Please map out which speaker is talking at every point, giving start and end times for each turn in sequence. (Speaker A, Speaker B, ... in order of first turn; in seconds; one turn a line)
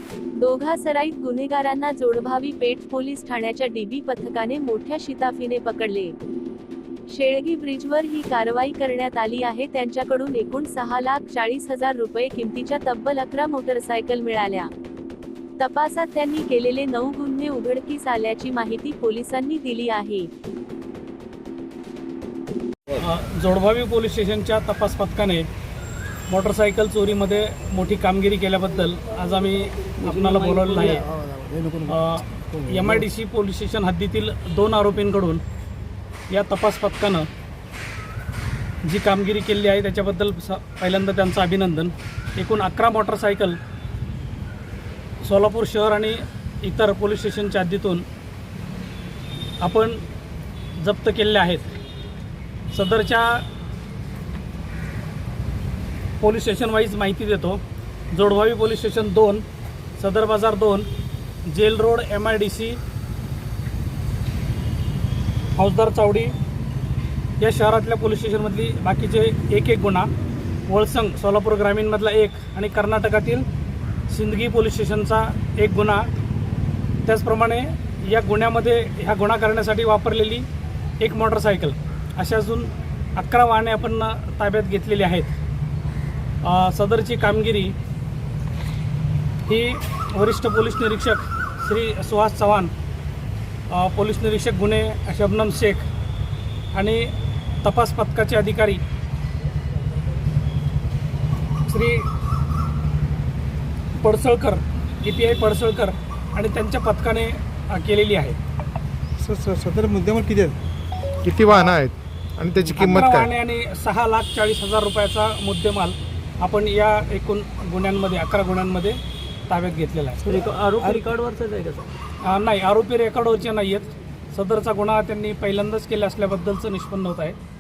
Speaker A: 0.4-6.1
Speaker A: 7.1-14.7
Speaker A: 15.6-20.3
Speaker B: 23.0-25.5
Speaker B: 26.3-31.1
Speaker C: 30.0-31.0
Speaker D: 31.0-31.9
Speaker B: 31.9-35.4
Speaker B: 36.3-37.3
Speaker B: 38.9-43.6
Speaker B: 45.2-48.1
Speaker B: 49.6-50.0
Speaker B: 50.8-51.7
Speaker B: 52.7-53.5
Speaker B: 56.2-57.6
Speaker B: 58.1-59.5
Speaker B: 60.0-60.9
Speaker B: 61.5-62.8
Speaker B: 65.6-66.3
Speaker B: 67.4-70.1
Speaker B: 70.7-73.5
Speaker B: 74.1-76.1
Speaker B: 77.0-80.5
Speaker B: 81.0-85.3
Speaker B: 86.4-87.8
Speaker B: 89.5-92.7
Speaker B: 93.7-95.9
Speaker B: 96.7-98.8
Speaker B: 101.7-102.1
Speaker B: 104.0-108.4
Speaker D: 109.2-110.6
Speaker E: 111.2-113.3
Speaker B: 112.7-119.0
Speaker B: 119.5-120.3
Speaker C: 120.2-121.9
Speaker B: 122.2-127.4